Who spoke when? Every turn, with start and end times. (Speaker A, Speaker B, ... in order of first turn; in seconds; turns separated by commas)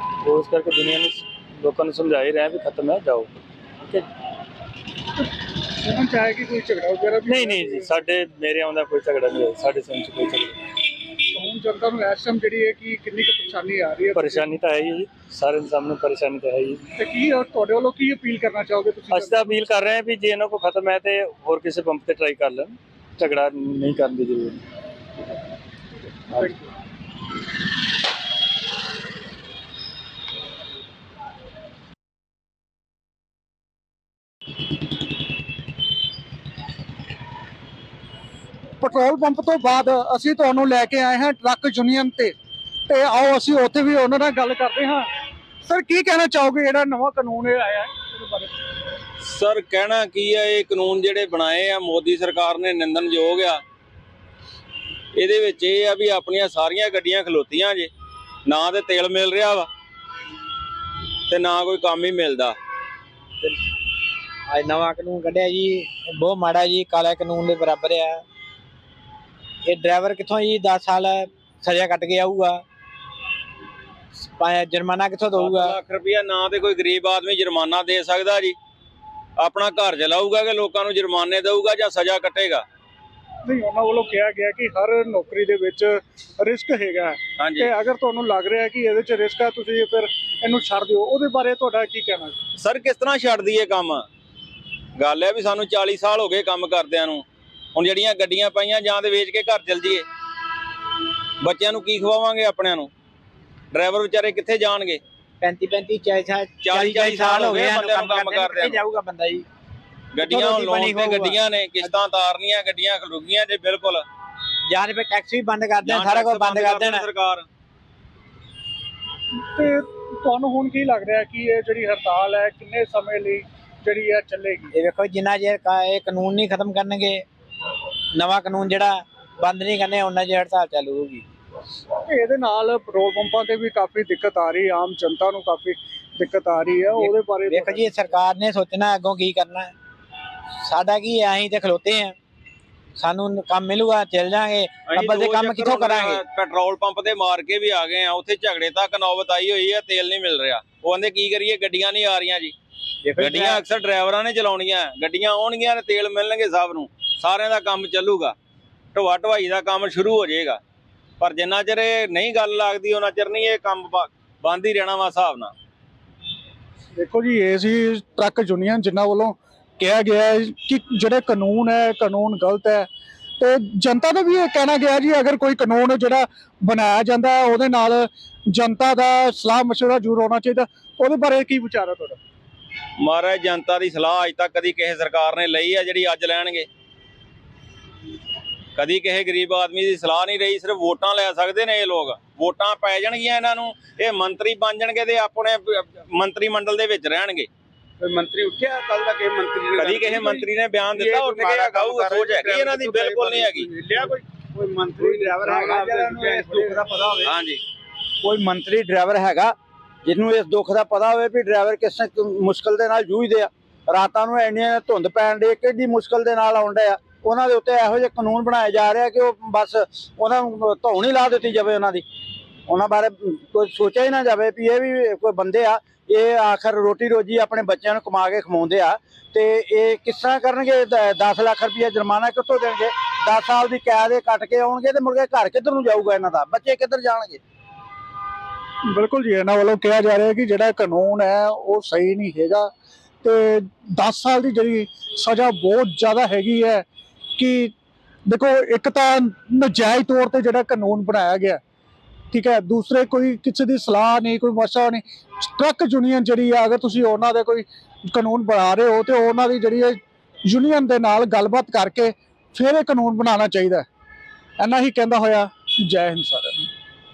Speaker A: 0.2-3.3, Speaker B: 5.8-8.0, Speaker A: 7.2-10.6, Speaker B: 11.3-14.6, Speaker A: 14.1-16.8, Speaker B: 16.9-19.7, Speaker A: 19.1-24.6, Speaker B: 38.8-42.3, Speaker B: 42.9-45.1, Speaker B: 45.6-48.5, Speaker C: 49.2-53.6, Speaker C: 55.1-57.9, Speaker C: 58.5-59.7, Speaker C: 61.3-62.5, Speaker D: 64.5-68.2, Speaker D: 69.7-72.6, Speaker D: 74.2-75.7, Speaker C: 75.3-78.5, Speaker C: 79.4-82.6, Speaker B: 83.4-92.4, Speaker C: 87.4-87.7, Speaker C: 92.6-94.0, Speaker C: 95.0-97.2, Speaker C: 97.7-100.0, Speaker C: 101.4-102.9, Speaker C: 103.7-105.0, Speaker D: 105.4-109.5, Speaker C: 106.6-108.8, Speaker C: 110.1-114.0, Speaker D: 110.2-111.9, Speaker D: 114.7-117.0, Speaker C: 115.8-117.5, Speaker B: 119.5-124.7, Speaker D: 124.7-127.2, Speaker D: 128.1-131.2, Speaker B: 132.1-137.9, Speaker D: 137.0-139.7, Speaker D: 140.6-142.2, Speaker D: 143.0-146.2, Speaker C: 144.8-152.5, Speaker D: 153.0-153.6, Speaker C: 153.2-158.3, Speaker C: 158.9-160.6, Speaker C: 161.2-165.5, Speaker B: 166.9-172.9, Speaker B: 173.4-182.2, Speaker C: 183.0-186.7, Speaker C: 188.8-197.5, Speaker E: 198.0-200.4, Speaker C: 199.8-203.7, Speaker E: 201.1-207.3, Speaker C: 207.2-207.6, Speaker E: 208.2-222.0, Speaker E: 222.7-237.4, Speaker B: 238.9-242.7, Speaker B: 243.2-246.8, Speaker B: 247.4-247.7, Speaker B: 248.2-251.6, Speaker B: 252.3-263.9, Speaker B: 264.6-266.7